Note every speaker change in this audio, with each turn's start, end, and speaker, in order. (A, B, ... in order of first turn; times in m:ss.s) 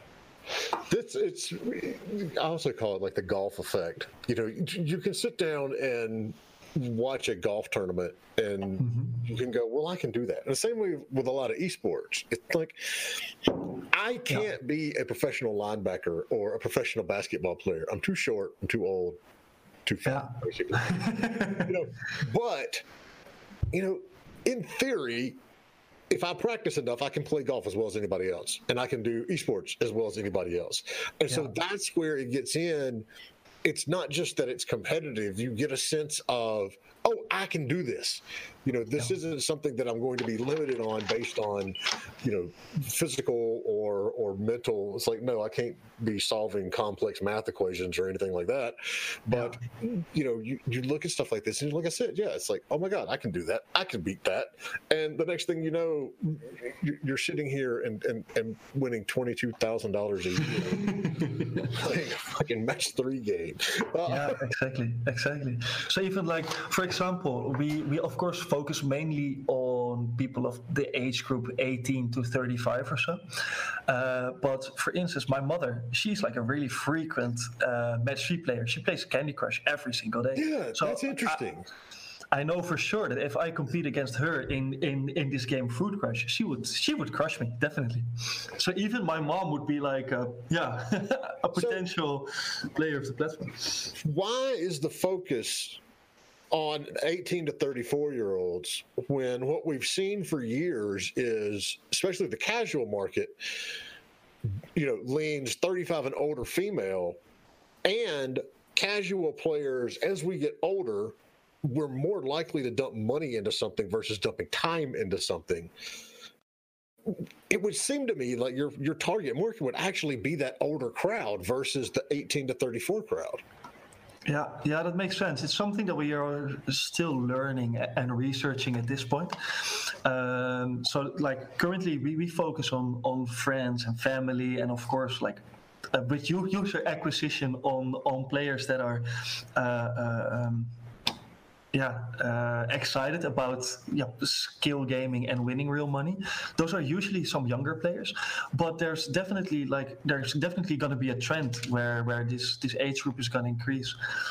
0:00.7-0:19.2 A
0:08.8-0:09.2 B
0:19.8-0:22.8 A
0:20.0-0:21.8 B
0:23.7-0:25.4 A
0:26.1-0:33.0 A
0:33.6-1:04.5 A
0:49.3-0:49.6 B
1:00.4-1:01.8 B
1:04.0-1:13.2 B
1:13.9-1:21.4 B
1:20.3-1:21.7 A
1:22.3-1:33.9 B
1:31.5-1:31.8 A
1:34.0-1:35.8 A
1:36.5-1:43.6 A
1:44.7-1:47.2 A
1:47.8-1:55.7 A
1:57.0-2:03.4 A
2:04.2-2:15.4 B
2:15.9-2:20.7 B
2:21.7-2:34.0 B